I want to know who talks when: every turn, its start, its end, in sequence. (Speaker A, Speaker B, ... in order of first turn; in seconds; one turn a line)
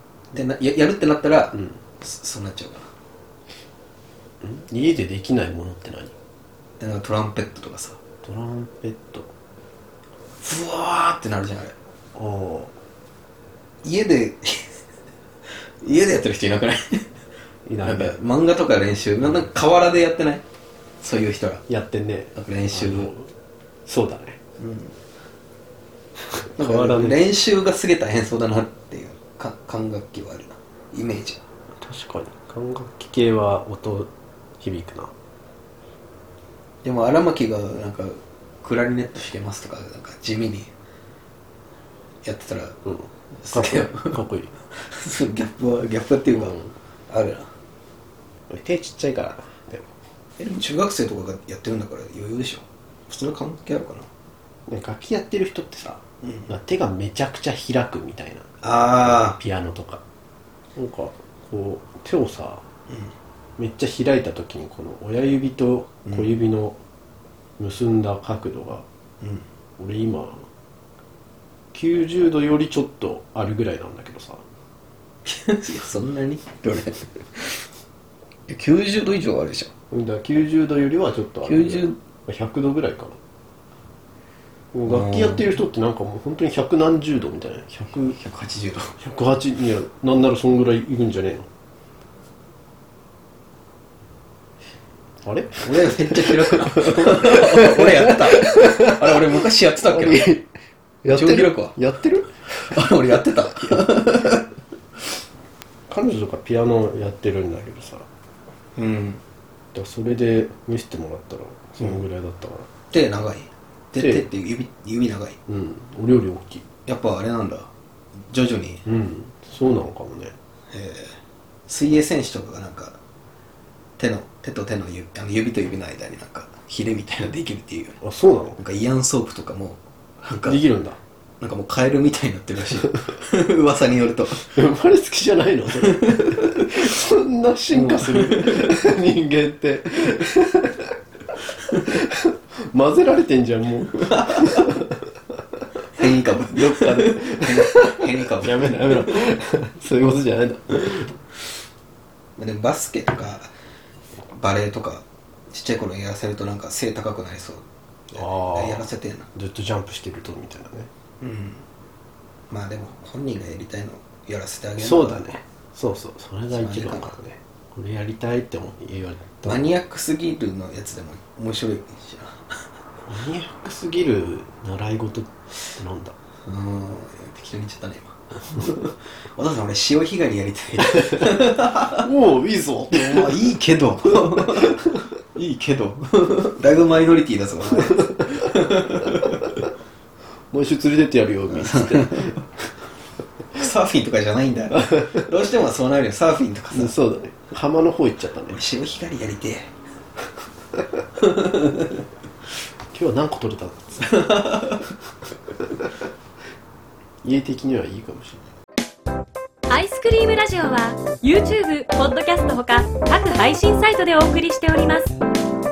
Speaker A: 0.3-2.9
Speaker B: 4.4-6.1
Speaker A: 6.8-8.0
Speaker B: 8.2-9.3
Speaker A: 10.4-11.7
Speaker B: 12.1-12.7
Speaker A: 13.8-14.7
Speaker A: 15.8-17.1
Speaker B: 17.7-18.2
Speaker A: 17.8-20.4
Speaker A: 21.0-21.6
Speaker B: 21.7-23.3
Speaker A: 22.3-23.1
Speaker B: 23.9-24.4
Speaker A: 24.6-24.9
Speaker B: 26.3-27.2
Speaker A: 26.6-31.4
Speaker B: 31.8-35.1
Speaker A: 36.8-40.7
Speaker A: 42.2-42.8
Speaker B: 42.9-44.5
Speaker A: 43.3-44.2
Speaker A: 44.8-46.6
Speaker B: 46.3-46.7
Speaker A: 47.1-47.5
Speaker B: 48.5-49.9
Speaker A: 50.4-54.1
Speaker B: 54.7-58.5
Speaker A: 56.2-56.5
Speaker A: 58.6-59.4
Speaker B: 59.0-60.0
Speaker B: 60.8-62.6
Speaker B: 63.6-66.8
Speaker A: 66.1-66.3
Speaker B: 67.6-68.8
Speaker B: 69.8-70.5
Speaker B: 71.7-74.4
Speaker A: 75.2-77.6
Speaker A: 78.5-79.7
Speaker B: 79.9-83.2
Speaker A: 81.4-82.0
Speaker B: 84.7-88.2
Speaker A: 84.8-85.5
Speaker A: 87.9-88.9
Speaker B: 89.0-91.5
Speaker B: 95.2-98.9
Speaker A: 95.6-100.3
Speaker B: 99.9-100.5
Speaker B: 101.0-104.1
Speaker A: 101.1-101.7
Speaker A: 102.7-104.4
Speaker B: 105.9-108.1
Speaker A: 108.8-109.2
Speaker B: 109.7-112.7
Speaker A: 112.9-115.4
Speaker B: 114.0-114.3
Speaker B: 115.5-116.6
Speaker A: 116.8-117.7
Speaker A: 118.3-118.8
Speaker B: 118.8-120.3
Speaker A: 120.7-123.0
Speaker A: 124.0-128.0
Speaker B: 128.0-128.6
Speaker A: 128.6-130.6
Speaker B: 130.4-131.0
Speaker A: 131.4-134.5
Speaker B: 134.4-140.9
Speaker A: 135.8-136.9
Speaker A: 137.7-138.8
Speaker B: 141.8-144.9
Speaker A: 144.2-144.7
Speaker A: 145.9-149.3
Speaker B: 146.5-151.2
Speaker A: 152.4-153.5
Speaker A: 154.3-159.3
Speaker B: 158.1-160.9
Speaker A: 161.2-161.6
Speaker A: 162.5-165.4
Speaker B: 164.8-169.7
Speaker A: 166.5-167.2
Speaker A: 169.4-172.4
Speaker B: 173.1-176.2
Speaker A: 176.4-182.0
Speaker B: 181.9-183.3
Speaker A: 182.9-189.4
Speaker B: 190.5-192.4
Speaker A: 191.5-192.3
Speaker A: 193.6-196.9
Speaker B: 194.8-195.1
Speaker B: 196.7-198.6
Speaker A: 198.5-199.7
Speaker A: 201.2-201.9
Speaker B: 202.9-204.2
Speaker A: 204.0-204.8
Speaker B: 207.2-208.4
Speaker C: 209.7-215.1